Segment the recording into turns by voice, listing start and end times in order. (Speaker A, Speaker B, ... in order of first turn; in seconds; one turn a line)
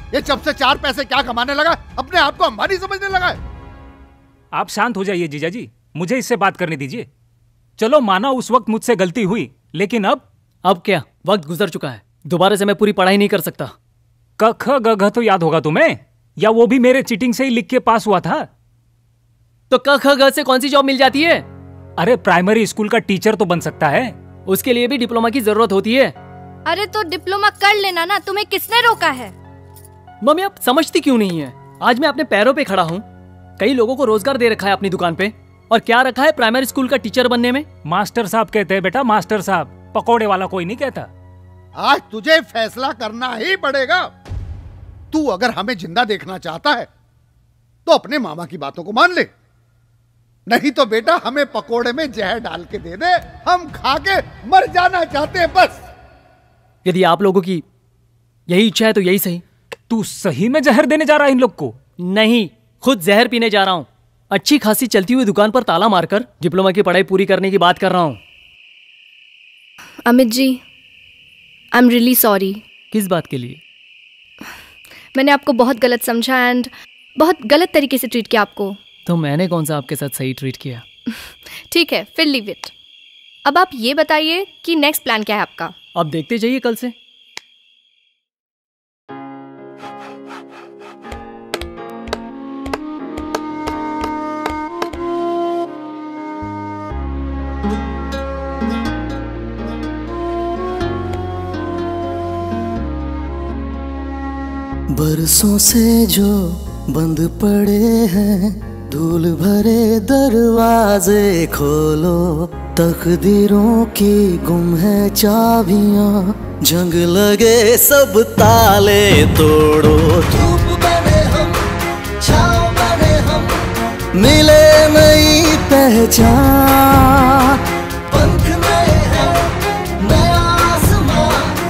Speaker A: 0.1-3.4
Speaker B: 4.5-7.1
Speaker B: 7.8-10.2
Speaker C: 10.6-13.7
Speaker B: 14.4-18.5
Speaker C: 19.7-21.5
Speaker B: 22.0-24.1
Speaker C: 24.5-26.1
Speaker D: 26.7-29.3
Speaker C: 30.2-33.0
Speaker C: 33.6-37.6
Speaker B: 37.9-41.1
Speaker A: 41.8-44.1
Speaker A: 45.1-46.9
Speaker A: 47.9-49.3
Speaker A: 50.5-55.8
Speaker C: 56.8-57.6
Speaker C: 58.5-59.4
Speaker B: 59.9-61.8
Speaker C: 62.0-68.2
Speaker D: 70.0-70.6
Speaker D: 71.7-72.6
Speaker C: 72.9-73.6
Speaker D: 75.1-78.8
Speaker C: 79.0-80.8
Speaker D: 81.1-82.7
Speaker D: 83.4-85.7
Speaker C: 86.0-86.9
Speaker E: 104.9-120.8
Speaker E: 124.2-127.2